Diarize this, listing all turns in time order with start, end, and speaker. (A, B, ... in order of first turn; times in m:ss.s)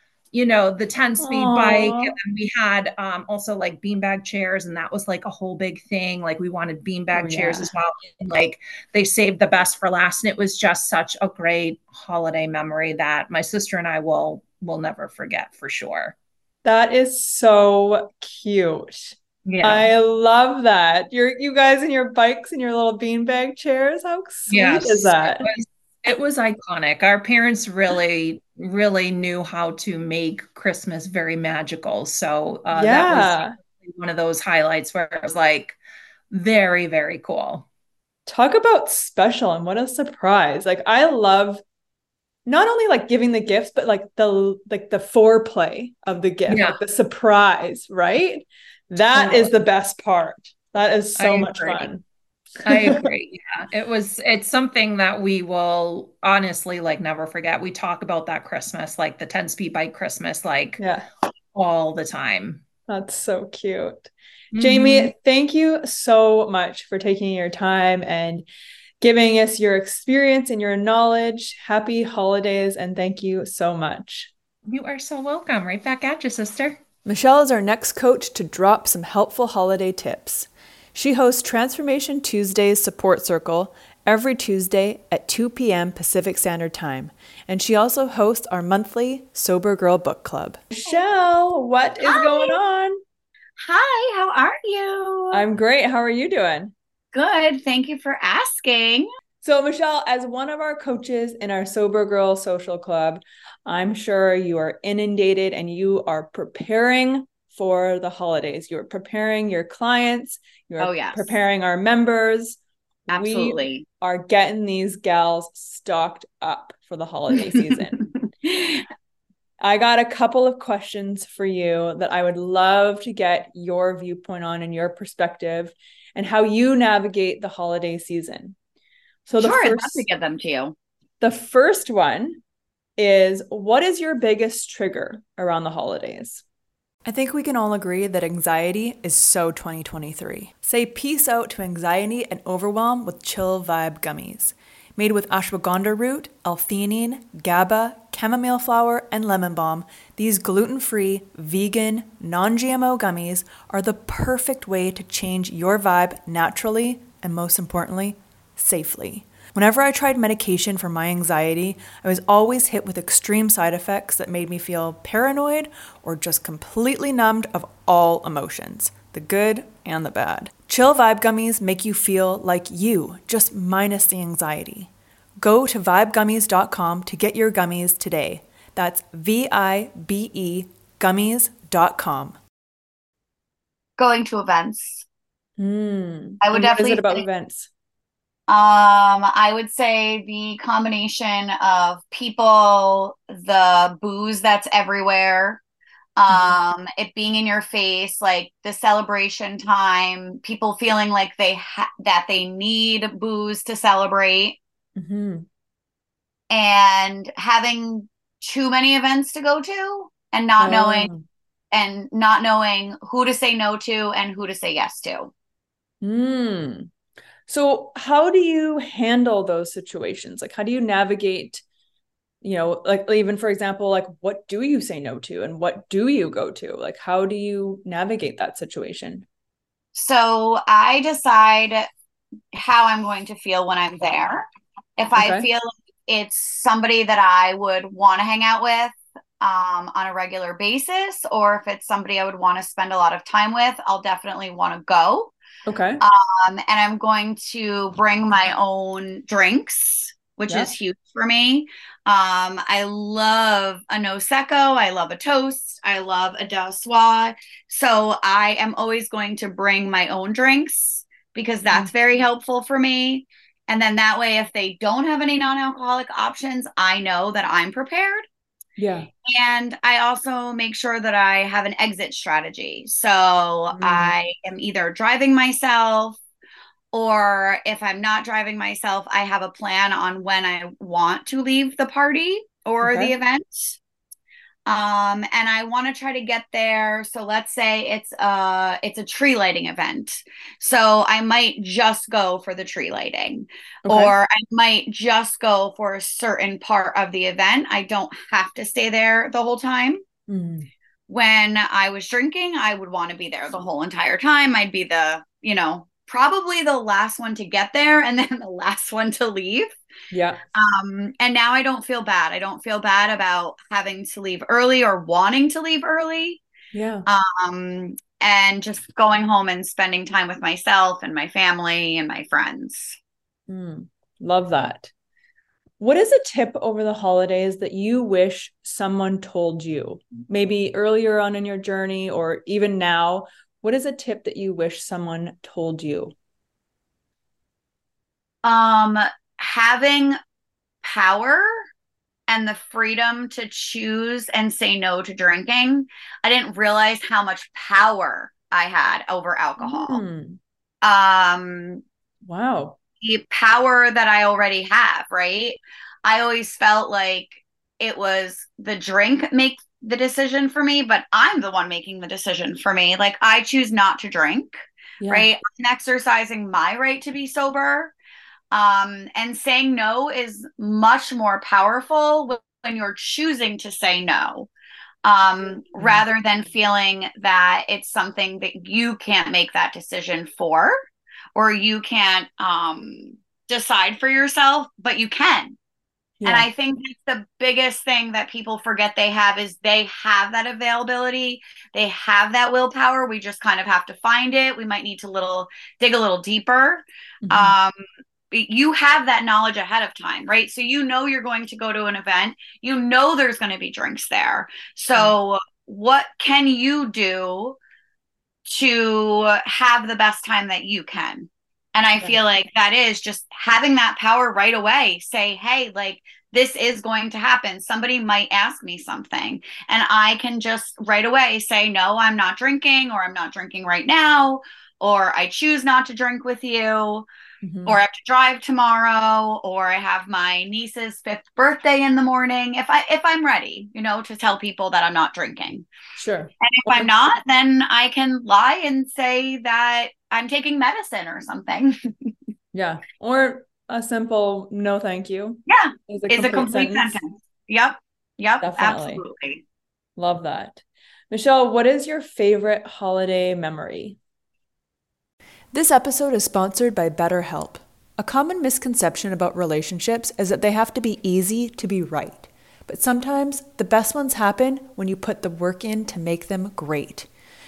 0:00.3-0:16.2 A
0:01.2-0:02.2 B
0:07.1-0:07.7 B
0:16.6-0:25.5 B
0:19.5-0:19.9 A
0:24.5-0:35.8 A
0:32.7-0:33.6 B
0:36.3-0:37.7 A
0:38.3-0:41.6 B
0:42.5-0:52.0 B
0:46.5-0:46.8 A
0:49.1-0:49.5 A
0:51.2-0:51.9 A
0:52.6-1:00.8 A
0:52.7-0:53.0 B
1:00.8-1:01.1 B
1:01.5-1:02.6 A
1:02.9-1:08.4 B
1:04.5-1:05.1 A
1:09.0-1:14.3 B
1:14.7-1:16.8 A
1:17.1-1:33.0 B
1:32.0-1:32.6 C
1:33.6-1:35.4 C
1:35.3-1:36.7 B
1:37.1-1:39.1 C
1:39.4-1:58.1 B
1:50.8-1:51.3 C
1:53.1-1:53.9 C
1:59.6-2:08.6 B
2:09.3-2:10.1 B
2:09.4-2:10.8 C
2:11.2-2:12.4 B
2:13.0-2:16.4 B
2:17.0-3:02.4 B
3:04.0-3:05.0 C
3:05.6-3:07.7 B
3:06.4-3:07.2 C
3:08.5-3:15.6 C
3:16.2-3:24.6 C
3:25.0-3:25.5 B
3:26.5-3:31.1 C
3:30.6-3:31.2 B
3:31.7-3:35.3 C
3:36.0-3:36.9 B
3:37.5-3:41.6 B
3:42.4-3:49.3 B
3:50.0-3:51.9 C
3:52.5-4:05.3 C
3:55.2-3:55.5 B
4:05.7-4:06.0 B
4:06.0-4:28.3 C
4:28.8-4:29.1 B
4:29.2-4:36.2 C
4:33.7-4:34.2 B
4:36.9-4:43.8 C
4:42.8-4:43.2 B
4:44.7-5:00.0 C
4:53.9-4:54.2 B
5:00.3-5:00.7 B
5:01.1-5:09.8 C
5:10.1-5:10.4 B
5:10.5-5:16.4 C
5:16.7-5:17.1 B
5:17.1-5:23.0 C
5:23.5-5:24.9 B
5:25.8-5:36.1 B
5:38.4-5:40.2 C
5:40.8-5:41.6 C
5:42.3-5:50.0 C
5:49.6-5:50.4 B
5:50.8-5:51.8 C
5:52.2-5:52.8 B
5:53.0-6:07.9 C
6:05.0-6:05.3 B
6:08.5-6:14.5 C
6:15.0-6:20.8 C
6:15.8-6:16.0 B
6:21.4-6:25.6 C
6:26.2-6:26.5 B
6:26.2-6:47.6 C
6:37.2-6:37.6 B
6:48.5-7:07.1 C
7:07.4-7:07.8 B
7:07.6-7:15.7 C
7:16.0-7:16.9 B
7:16.4-7:22.1 C
7:22.5-7:27.0 B
7:25.5-7:29.4 C
7:28.4-7:29.0 B
7:30.0-7:34.0 B
7:35.5-7:47.1 B